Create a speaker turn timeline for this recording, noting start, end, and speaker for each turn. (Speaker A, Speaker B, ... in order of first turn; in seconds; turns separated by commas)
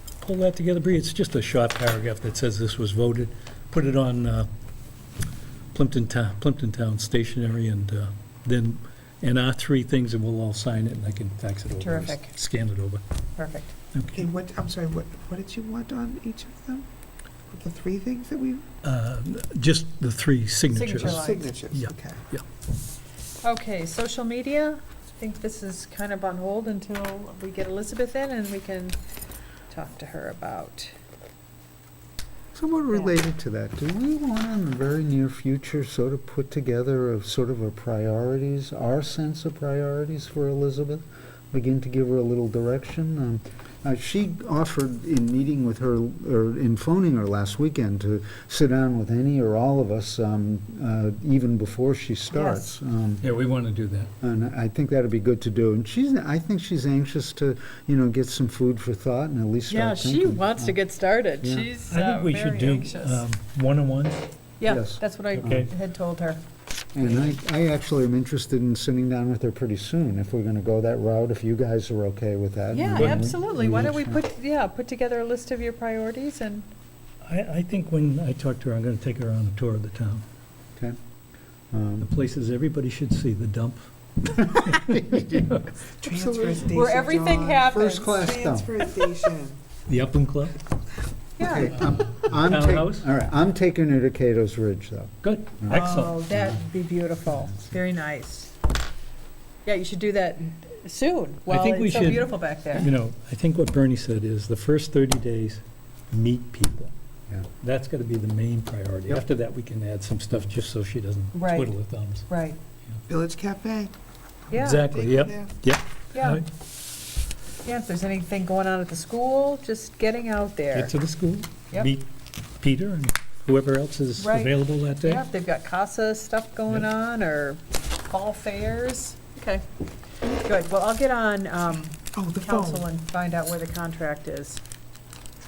Speaker A: 0.2-4.5, Speaker A: 5.7-13.0, Speaker B: 11.8-12.3, Speaker B: 13.4-13.7, Speaker A: 13.9-14.3, Speaker C: 14.1-16.9, Speaker C: 17.5-18.7, Speaker A: 18.8-22.4, Speaker B: 20.7-21.5, Speaker C: 21.0-22.2, Speaker B: 23.4-29.0, Speaker B: 29.7-30.9, Speaker D: 32.5-53.3, Speaker B: 52.3-52.7, Speaker A: 53.2-54.1, Speaker D: 54.2-60.8, Speaker B: 59.7-63.2, Speaker D: 61.4-61.7, Speaker A: 61.9-64.2, Speaker B: 64.6-66.4, Speaker D: 64.6-65.7, Speaker A: 65.3-65.7, Speaker D: 66.9-74.2, Speaker B: 67.0-67.3, Speaker B: 72.7-76.7, Speaker A: 72.9-73.3, Speaker A: 77.2-80.2, Speaker D: 81.7-82.1, Speaker A: 82.0-85.7, Speaker D: 84.2-86.7, Speaker C: 86.0-89.6, Speaker B: 86.6-88.2, Speaker D: 87.6-88.7, Speaker A: 89.9-90.6, Speaker B: 91.4-91.8, Speaker D: 91.4-96.6, Speaker A: 92.3-93.1, Speaker A: 95.2-96.2, Speaker B: 95.7-98.5, Speaker B: 99.7-102.9, Speaker A: 101.5-106.9, Speaker A: 107.6-112.3, Speaker B: 111.3-111.7, Speaker B: 112.3-112.6, Speaker C: 113.1-113.9, Speaker C: 114.5-115.5, Speaker B: 114.5-114.9, Speaker A: 114.5-116.5, Speaker B: 116.1-116.4, Speaker B: 117.6-121.0, Speaker A: 120.7-122.1, Speaker A: 122.6-125.2, Speaker B: 124.2-129.7, Speaker B: 130.4-134.6, Speaker C: 132.1-132.9